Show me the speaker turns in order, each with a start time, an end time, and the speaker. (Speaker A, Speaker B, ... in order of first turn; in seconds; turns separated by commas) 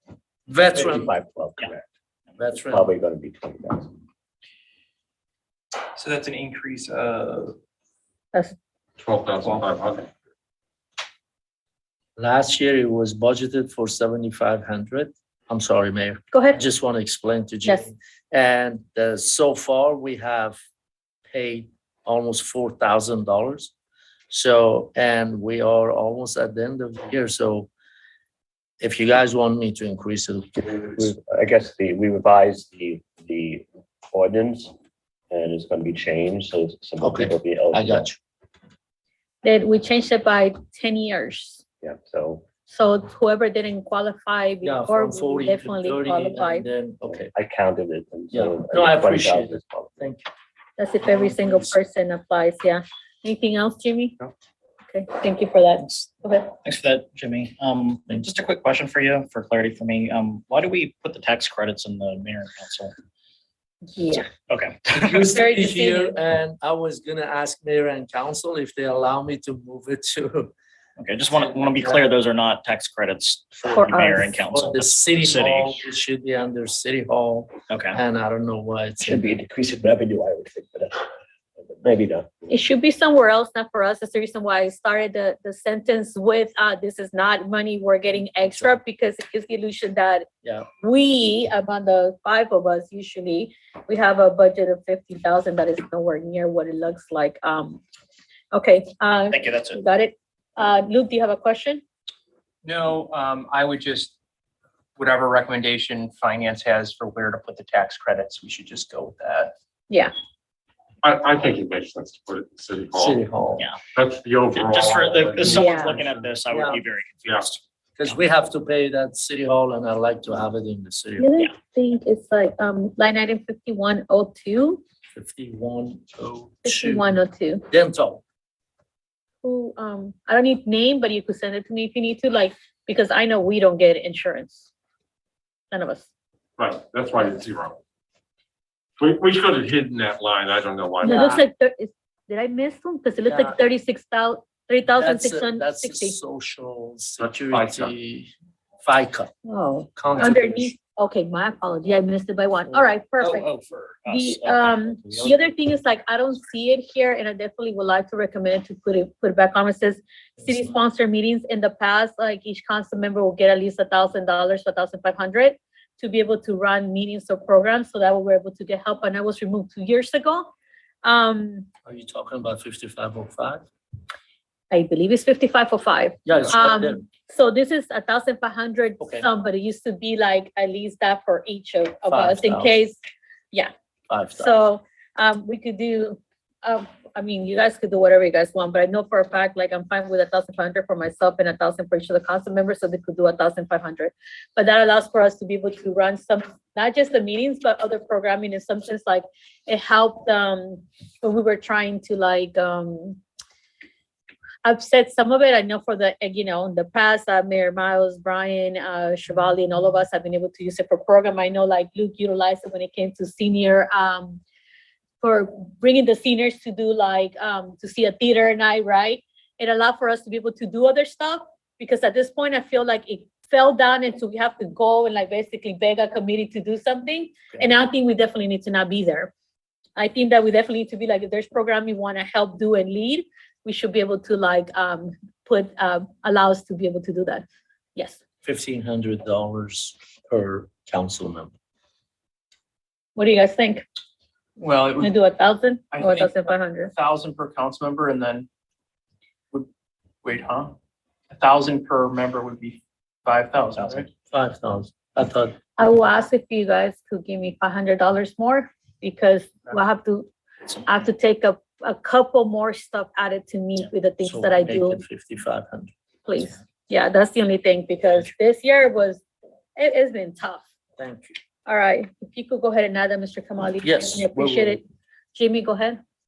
Speaker A: 0.5-1.1, Speaker B: 0.7-1.9, Speaker A: 2.4-2.9, Speaker B: 2.7-3.9, Speaker C: 6.0-7.5, Speaker D: 9.0-10.1, Speaker A: 12.2-20.6, Speaker E: 16.3-16.6, Speaker A: 21.3-23.7, Speaker A: 24.3-27.7, Speaker A: 28.8-31.1, Speaker B: 30.6-34.7, Speaker B: 35.3-38.1, Speaker A: 37.0-38.2, Speaker E: 39.4-41.6, Speaker B: 41.8-42.5, Speaker E: 42.7-46.6, Speaker A: 44.6-47.3, Speaker B: 47.1-50.0, Speaker A: 48.3-50.2, Speaker E: 50.8-54.2, Speaker A: 51.0-51.8, Speaker E: 54.9-56.5, Speaker F: 56.6-63.0, Speaker E: 63.9-64.3, Speaker F: 64.3-65.3, Speaker A: 64.9-70.5, Speaker E: 65.3-66.2, Speaker F: 71.0-75.8, Speaker E: 73.7-74.3, Speaker A: 74.5-79.2, Speaker F: 77.7-78.0, Speaker B: 79.0-81.1, Speaker B: 81.7-82.5, Speaker E: 82.5-90.3, Speaker A: 88.4-88.8, Speaker E: 90.8-97.8, Speaker E: 98.5-101.8, Speaker F: 99.3-99.8, Speaker C: 102.6-104.1, Speaker C: 105.0-109.5, Speaker D: 111.0-113.2, Speaker A: 112.9-113.7, Speaker D: 114.0-116.3, Speaker F: 114.5-118.2, Speaker E: 115.5-116.0, Speaker A: 116.5-116.8, Speaker D: 117.2-117.5, Speaker A: 118.0-121.3, Speaker E: 121.2-124.8, Speaker A: 125.1-127.2, Speaker E: 126.6-127.7, Speaker A: 127.7-128.2, Speaker E: 129.4-134.7, Speaker E: 135.7-136.1, Speaker D: 136.6-137.8, Speaker D: 139.0-141.4, Speaker E: 141.0-146.2, Speaker A: 141.1-141.4, Speaker A: 143.3-143.6, Speaker A: 144.9-148.3, Speaker D: 147.2-147.9, Speaker A: 148.8-149.3, Speaker E: 149.5-153.5, Speaker A: 150.0-150.8, Speaker F: 153.2-155.4, Speaker E: 154.1-170.5, Speaker E: 171.0-171.7, Speaker A: 171.9-173.7, Speaker E: 174.7-183.0, Speaker A: 176.3-177.1, Speaker A: 179.0-179.3, Speaker A: 182.1-182.8, Speaker A: 184.1-184.5, Speaker E: 184.4-203.2, Speaker E: 204.6-214.4, Speaker E: 215.2-229.3, Speaker E: 230.0-237.4, Speaker A: 238.4-241.5, Speaker E: 243.2-243.8, Speaker C: 244.6-245.2, Speaker E: 245.0-246.9, Speaker C: 245.9-246.4, Speaker C: 246.9-248.5, Speaker C: 250.2-250.8, Speaker C: 251.3-254.1, Speaker A: 254.3-255.6, Speaker E: 255.8-260.3, Speaker E: 260.8-265.0, Speaker A: 264.2-265.9, Speaker E: 266.3-269.2, Speaker E: 269.8-270.6, Speaker A: 271.0-271.4, Speaker E: 271.7-274.8, Speaker A: 273.8-274.8, Speaker E: 275.4-276.0